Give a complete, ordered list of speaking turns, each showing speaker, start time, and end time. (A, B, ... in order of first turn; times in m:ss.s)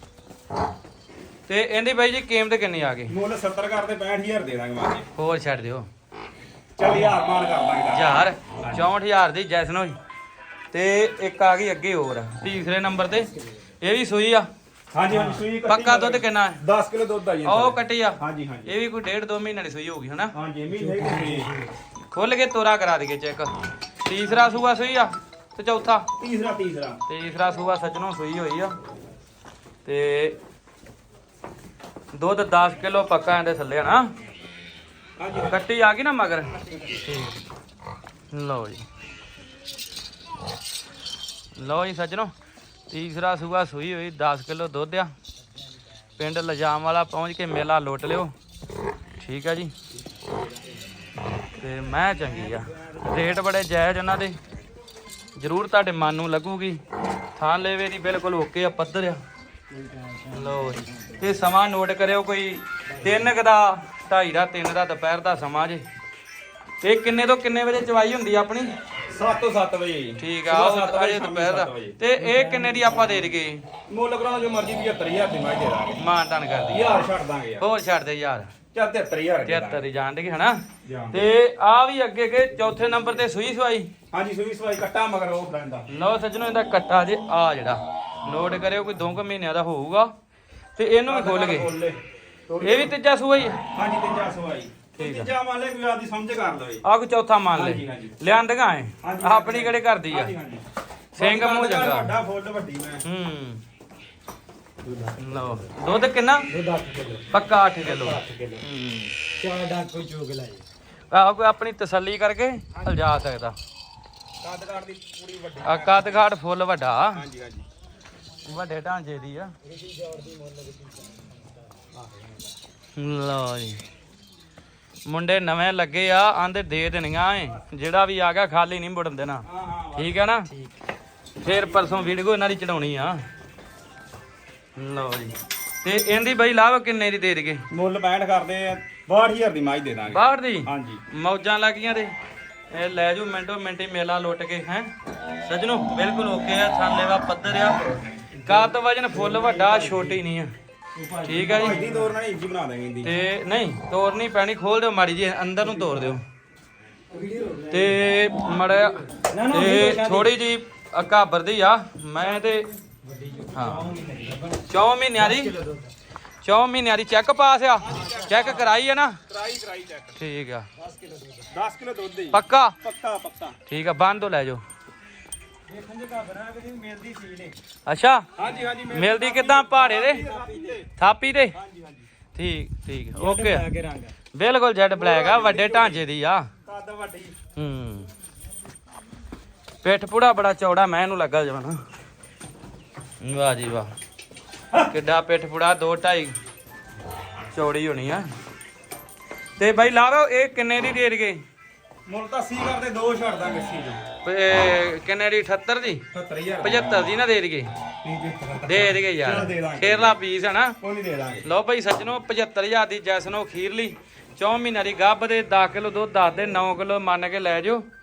0:01.5-0:03.1 A
0:03.1-0:05.1 B
0:05.1-0:05.9 A
0:06.8-0:08.9 B
0:07.9-0:10.0 A
0:10.7-0:14.5 A
0:14.9-0:18.7 B
0:15.6-0:16.6 A
0:17.4-0:20.3 A
0:20.3-0:21.5 B
0:20.8-0:21.7 C
0:22.1-0:26.1 A
0:26.2-0:27.0 B
0:27.1-0:28.8 A
0:29.8-0:30.4 A
0:32.1-0:34.1 A
0:35.2-0:35.6 B
0:35.4-0:37.4 A
0:36.5-0:37.0 B
0:38.3-0:38.8 A
0:41.6-0:42.3 A
0:42.9-0:45.1 A
0:46.2-0:48.3 A
0:49.2-0:49.7 A
0:50.2-0:50.5 C
0:51.5-0:54.4 A
0:52.5-0:53.0 C
0:55.4-0:56.8 A
0:57.3-0:59.2 A
0:59.7-1:01.2 C
1:00.3-1:05.8 A
1:02.9-1:03.2 C
1:06.8-1:08.7 A
1:09.0-1:12.0 B
1:10.2-1:13.6 A
1:12.2-1:13.1 C
1:13.9-1:16.0 B
1:16.0-1:17.0 A
1:16.7-1:17.6 B
1:17.6-1:18.5 A
1:18.7-1:19.8 B
1:19.4-1:23.9 A
1:20.8-1:21.2 B
1:24.1-1:25.9 B
1:25.9-1:30.1 A
1:30.8-1:31.7 A
1:31.1-1:32.9 B
1:32.6-1:33.6 A
1:33.7-1:36.8 B
1:34.9-1:35.3 A
1:36.8-1:40.3 A
1:37.5-1:38.2 B
1:39.0-1:40.6 B
1:41.1-1:42.2 A
1:41.2-1:43.0 B
1:43.0-1:43.6 A
1:44.8-1:45.7 C
1:45.2-1:46.5 A
1:46.5-1:47.3 C
1:47.3-1:49.2 A
1:47.8-1:48.6 C
1:49.3-1:50.6 C
1:51.1-1:53.6 A
1:54.4-1:56.3 B
1:55.6-1:57.2 A
1:57.1-1:57.7 B
1:58.4-1:59.5 A
1:59.6-2:02.5 C
2:02.9-2:03.8 A
2:05.0-2:10.5 A
2:09.4-2:10.2 B
2:11.4-2:13.2 A
2:14.8-2:17.6 A
2:17.7-2:21.0 B
2:20.1-2:22.1 A
2:22.7-2:24.9 A
2:25.4-2:30.5 A
2:28.4-2:30.2 C
2:31.0-2:32.1 C
2:31.2-2:31.8 A
2:31.4-2:33.1 B
2:33.0-2:36.2 A
2:37.1-2:38.0 C
2:37.7-2:42.7 A
2:38.5-2:40.3 C
2:39.5-2:39.8 B
2:43.0-2:45.9 C
2:43.5-2:43.9 A
2:44.7-2:45.6 A
2:46.4-2:49.2 A
2:47.8-2:50.2 B
2:50.1-2:50.7 A
2:50.8-2:51.5 C
2:51.5-2:53.6 B
2:52.3-2:52.8 A
2:53.7-2:54.6 A
2:55.7-2:57.6 C
2:57.8-2:58.3 A
2:58.4-3:00.9 B
2:58.9-3:00.2 A
3:00.2-3:00.8 C
3:00.9-3:01.6 A
3:01.5-3:02.1 B
3:02.3-3:03.7 A
3:03.1-3:04.1 C
3:04.3-3:06.5 A
3:04.9-3:06.0 B
3:06.6-3:07.4 B
3:07.6-3:08.1 A
3:09.8-3:11.8 A
3:13.2-3:13.9 A
3:14.8-3:16.4 A
3:17.5-3:18.3 A
3:19.6-3:21.4 A
3:22.0-3:24.0 B
3:24.2-3:26.0 A
3:26.1-3:27.1 B
3:26.6-3:27.7 A
3:28.0-3:30.1 B
3:28.6-3:30.8 A
3:30.8-3:31.5 B
3:31.4-3:37.9 A